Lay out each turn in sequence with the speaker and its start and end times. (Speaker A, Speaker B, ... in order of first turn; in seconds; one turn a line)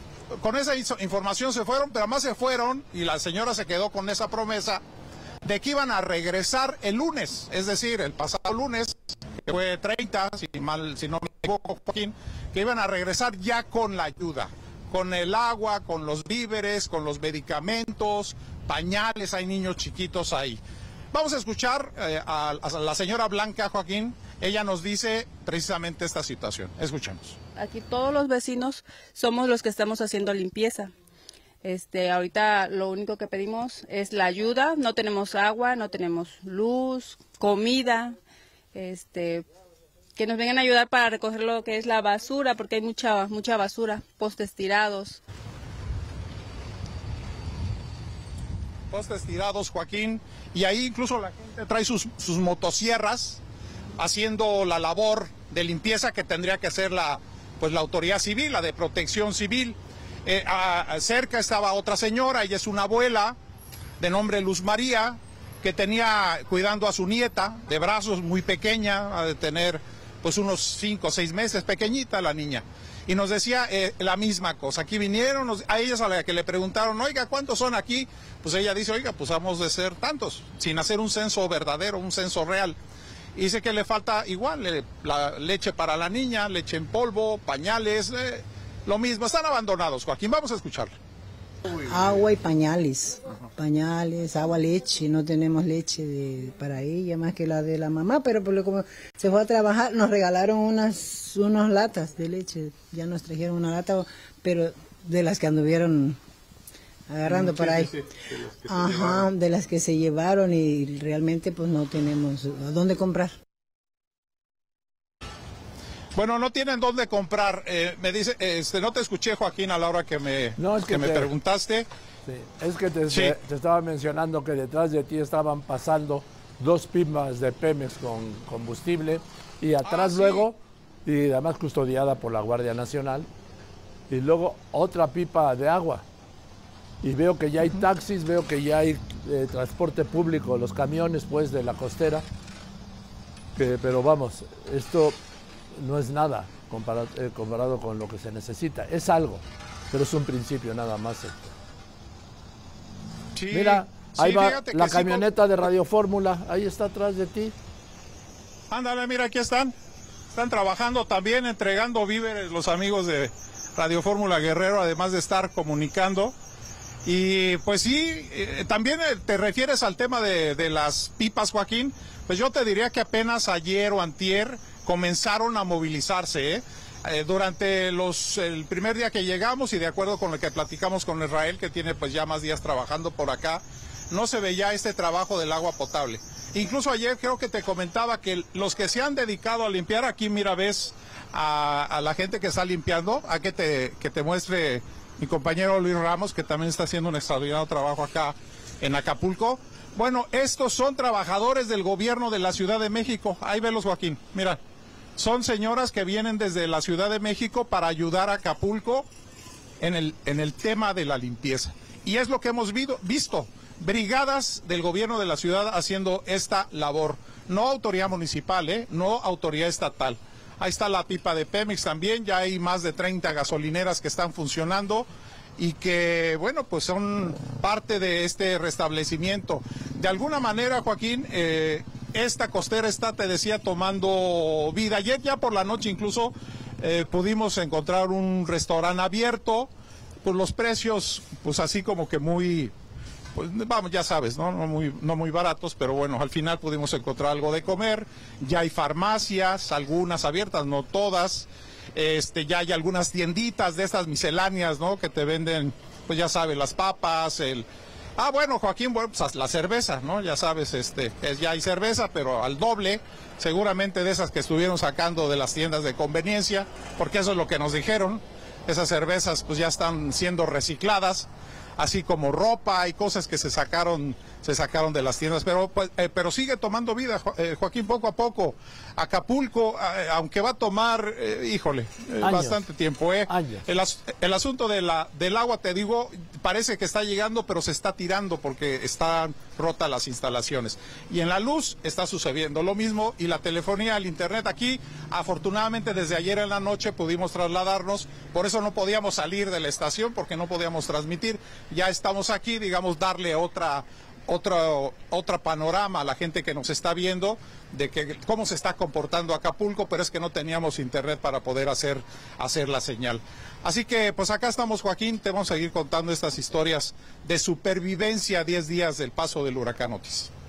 Speaker A: 0.3-4.8
Speaker A: 5.4-20.6
Speaker A: 21.1-27.4
Speaker B: 27.6-30.9
Speaker B: 31.6-38.1
Speaker B: 38.7-39.4
Speaker B: 40.1-45.2
Speaker A: 48.9-53.4
Speaker A: 54.0-63.4
Speaker A: 64.0-82.8
Speaker A: 83.3-90.9
Speaker C: 91.8-106.2
Speaker C: 107.1-108.0
Speaker A: 107.3-109.0
Speaker C: 108.6-113.3
Speaker A: 116.1-121.9
Speaker D: 120.6-121.3
Speaker D: 122.2-133.3
Speaker A: 123.1-123.4
Speaker A: 129.8-130.5
Speaker D: 134.1-136.1
Speaker D: 137.0-142.2
Speaker D: 143.6-145.2
Speaker D: 145.7-151.5
Speaker A: 153.3-155.3
Speaker D: 153.5-157.5
Speaker A: 158.7-159.7
Speaker A: 160.3-166.3
Speaker A: 167.0-204.6
Speaker A: 205.2-209.1
Speaker A: 209.8-239.7
Speaker A: 240.2-242.7
Speaker A: 243.3-320.3
Speaker D: 282.2-282.7
Speaker D: 283.3-283.7